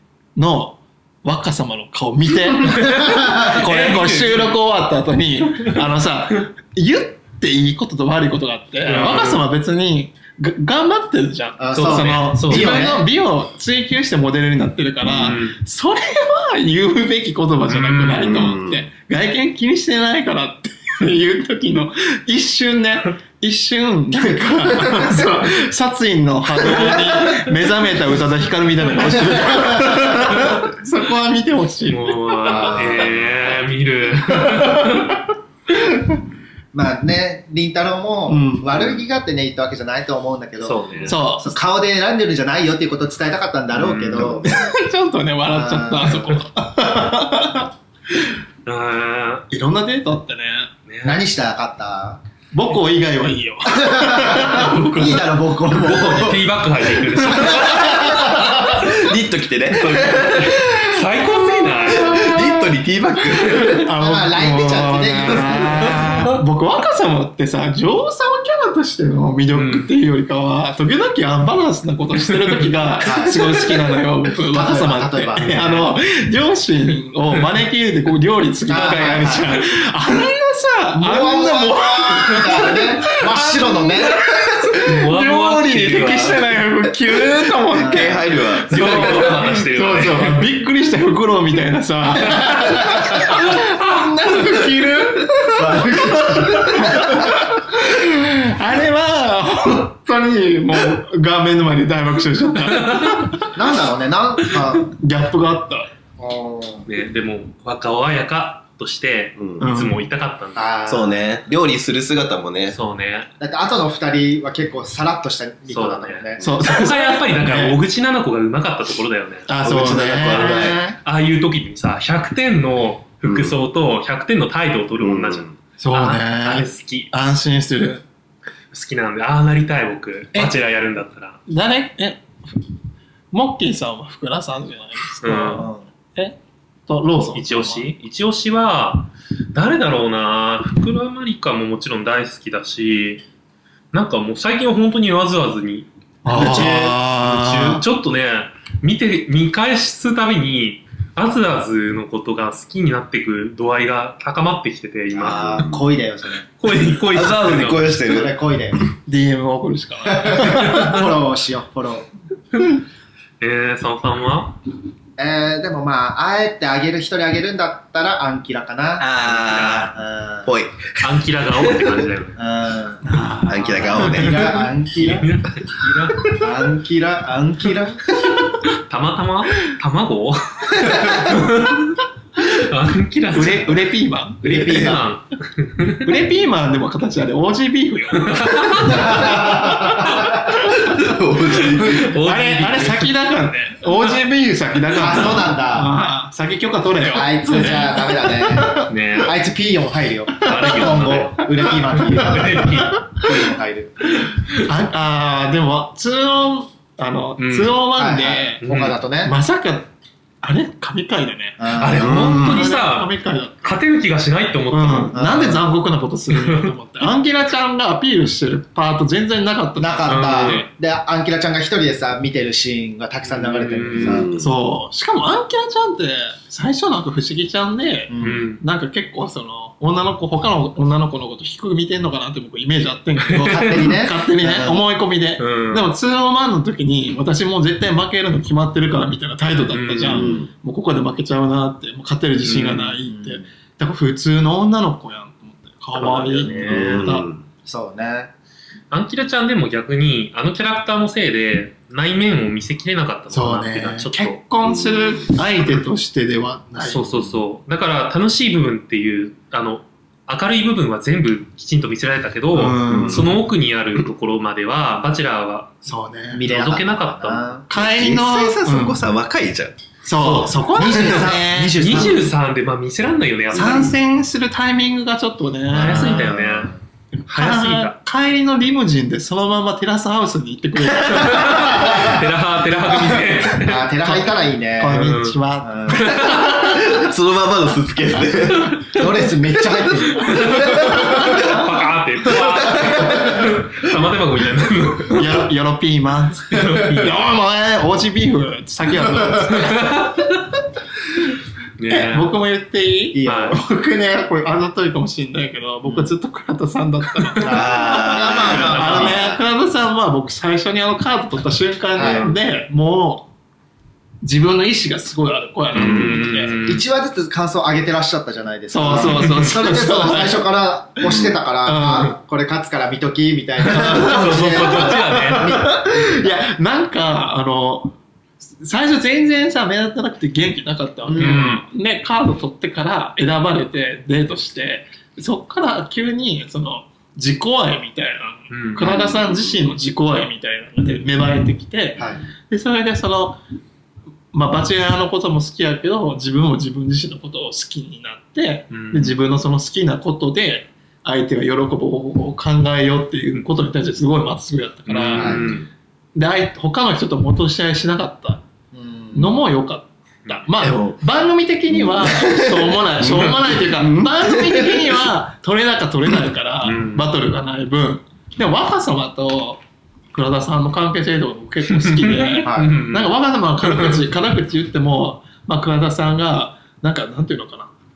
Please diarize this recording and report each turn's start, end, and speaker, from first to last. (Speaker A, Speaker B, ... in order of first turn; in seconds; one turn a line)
Speaker A: 0.3-32.7
Speaker B: 2.8-4.6
Speaker C: 3.0-3.5
Speaker B: 8.8-9.4
Speaker C: 11.6-13.1
Speaker B: 11.7-13.0
Speaker B: 15.0-15.6
Speaker B: 17.7-18.5
Speaker D: 18.2-18.8
Speaker C: 26.7-27.1
Speaker C: 29.1-30.5
Speaker B: 31.9-35.3
Speaker C: 32.4-33.5
Speaker A: 34.5-35.1
Speaker C: 36.7-44.5
Speaker A: 38.3-38.7
Speaker B: 40.6-41.2
Speaker A: 41.1-41.5
Speaker B: 43.7-44.3
Speaker D: 44.1-44.5
Speaker A: 44.4-47.7
Speaker C: 45.5-46.4
Speaker B: 48.6-49.4
Speaker A: 49.5-50.7
Speaker B: 50.9-51.2
Speaker C: 51.0-52.2
Speaker A: 52.5-55.2
Speaker C: 53.7-56.5
Speaker B: 54.3-58.4
Speaker C: 57.2-58.6
Speaker A: 57.4-57.7
Speaker D: 58.6-60.8
Speaker B: 60.0-62.6
Speaker D: 61.8-63.9
Speaker A: 62.1-62.5
Speaker A: 63.5-103.5
Speaker C: 64.0-66.1
Speaker B: 65.9-66.2
Speaker B: 69.5-69.9
Speaker B: 72.3-72.7
Speaker C: 73.0-75.9
Speaker C: 78.7-79.6
Speaker C: 81.0-84.3
Speaker B: 84.8-86.5
Speaker C: 87.7-88.2
Speaker D: 87.8-89.3
Speaker B: 88.7-90.5
Speaker C: 95.4-97.4
Speaker B: 102.6-103.3
Speaker C: 103.5-104.9
Speaker A: 104.7-105.9
Speaker C: 106.2-106.8
Speaker B: 106.9-110.8
Speaker D: 109.4-109.6
Speaker A: 109.6-110.0
Speaker C: 110.5-111.4
Speaker D: 110.9-112.8
Speaker B: 112.7-113.3
Speaker C: 113.4-116.5
Speaker B: 115.7-119.5
Speaker A: 116.4-117.8
Speaker A: 119.5-121.0
Speaker D: 119.6-120.8
Speaker B: 120.2-127.1
Speaker D: 123.2-123.5
Speaker D: 125.0-125.5
Speaker A: 125.8-128.0
Speaker B: 128.7-131.4
Speaker A: 131.5-132.6
Speaker A: 133.3-137.9
Speaker B: 135.2-135.7
Speaker C: 135.5-135.8
Speaker B: 137.3-143.2
Speaker B: 143.9-155.7
Speaker A: 146.2-147.8
Speaker C: 146.3-146.9
Speaker D: 155.1-155.9
Speaker C: 155.1-156.4
Speaker B: 156.6-158.0
Speaker D: 156.9-158.4
Speaker C: 157.9-158.9
Speaker A: 159.1-160.9
Speaker C: 160.1-162.1
Speaker B: 160.5-161.0
Speaker B: 163.4-164.6
Speaker C: 165.2-169.1
Speaker D: 169.0-172.0
Speaker B: 169.2-169.9
Speaker C: 169.9-170.5
Speaker B: 171.0-172.4
Speaker C: 172.3-173.0
Speaker A: 173.0-174.2
Speaker D: 173.5-174.5
Speaker C: 173.7-175.3
Speaker B: 174.0-176.4
Speaker C: 176.2-178.2
Speaker B: 178.6-183.9
Speaker A: 183.3-185.0
Speaker C: 184.4-185.0
Speaker B: 184.4-186.1
Speaker A: 186.0-189.4
Speaker B: 188.2-189.2
Speaker C: 188.8-190.6
Speaker D: 189.2-189.7
Speaker D: 190.5-192.1
Speaker B: 191.5-193.1
Speaker A: 192.2-198.9
Speaker C: 194.9-195.9
Speaker C: 197.1-203.9
Speaker B: 198.9-199.4
Speaker B: 200.4-203.4
Speaker A: 201.8-202.8
Speaker A: 204.7-208.6
Speaker B: 207.4-207.8
Speaker C: 207.9-209.3
Speaker B: 208.6-208.9
Speaker A: 209.2-209.9
Speaker A: 210.4-213.8
Speaker C: 211.6-212.3
Speaker B: 211.8-213.1
Speaker D: 211.9-212.7
Speaker B: 213.6-215.2
Speaker A: 214.7-220.7
Speaker C: 215.1-215.6
Speaker B: 216.3-216.7
Speaker C: 219.8-224.3
Speaker B: 220.1-220.7
Speaker B: 223.3-224.3
Speaker D: 223.9-224.5
Speaker A: 224.3-247.3
Speaker C: 228.1-228.5
Speaker B: 228.2-228.6
Speaker B: 233.3-233.9
Speaker C: 233.3-234.8
Speaker B: 235.4-235.9
Speaker B: 239.7-240.4
Speaker D: 240.0-240.5
Speaker B: 242.4-243.0
Speaker C: 243.0-243.4
Speaker B: 245.9-247.0
Speaker D: 246.7-247.4
Speaker C: 247.6-248.3
Speaker B: 248.9-254.4
Speaker A: 253.3-257.1
Speaker D: 254.6-255.3
Speaker B: 256.8-265.8
Speaker A: 262.5-263.3
Speaker D: 262.9-263.3
Speaker A: 265.8-266.4
Speaker C: 266.3-267.7
Speaker B: 266.4-267.5
Speaker A: 267.7-269.0
Speaker D: 267.7-269.8
Speaker A: 270.0-272.1
Speaker C: 270.2-272.3
Speaker B: 271.8-273.9
Speaker A: 273.5-276.3
Speaker B: 275.7-276.7
Speaker C: 275.7-276.7
Speaker A: 277.1-282.2
Speaker B: 277.3-277.9
Speaker B: 281.0-283.9
Speaker C: 281.8-282.1
Speaker C: 283.5-286.5
Speaker A: 284.0-286.8
Speaker B: 284.9-286.6
Speaker D: 286.6-289.0
Speaker B: 288.6-289.0
Speaker C: 288.9-291.6
Speaker B: 290.2-295.4
Speaker D: 290.6-291.3
Speaker C: 292.6-293.5
Speaker D: 292.7-293.0
Speaker A: 295.1-300.1
Speaker B: 296.5-297.2
Speaker C: 299.0-299.7
Speaker B: 299.5-300.4
Speaker B: 301.8-302.3
Speaker A: 301.9-313.3
Speaker C: 303.1-303.6
Speaker B: 303.2-303.6
Speaker C: 307.4-309.4
Speaker D: 307.4-309.1
Speaker B: 308.4-309.2
Speaker C: 311.9-312.3
Speaker B: 312.0-312.3
Speaker A: 314.2-316.6
Speaker B: 315.7-316.8
Speaker D: 315.7-316.2
Speaker C: 316.6-326.4
Speaker A: 318.7-320.5
Speaker B: 318.9-319.5
Speaker D: 321.1-321.4
Speaker A: 321.6-322.1
Speaker B: 323.6-325.7
Speaker A: 323.6-327.9
Speaker A: 328.5-343.4
Speaker C: 331.0-331.5
Speaker B: 331.1-331.6
Speaker B: 338.5-338.9
Speaker D: 338.8-339.5
Speaker C: 342.0-342.2
Speaker A: 344.3-355.4
Speaker B: 348.7-349.2
Speaker B: 354.9-355.7
Speaker C: 355.1-355.5
Speaker A: 356.1-358.4
Speaker C: 358.7-359.4
Speaker A: 359.1-369.6
Speaker D: 360.6-361.0
Speaker D: 361.7-364.8
Speaker B: 366.6-367.1
Speaker A: 370.1-377.7
Speaker B: 371.7-374.0
Speaker C: 372.4-372.8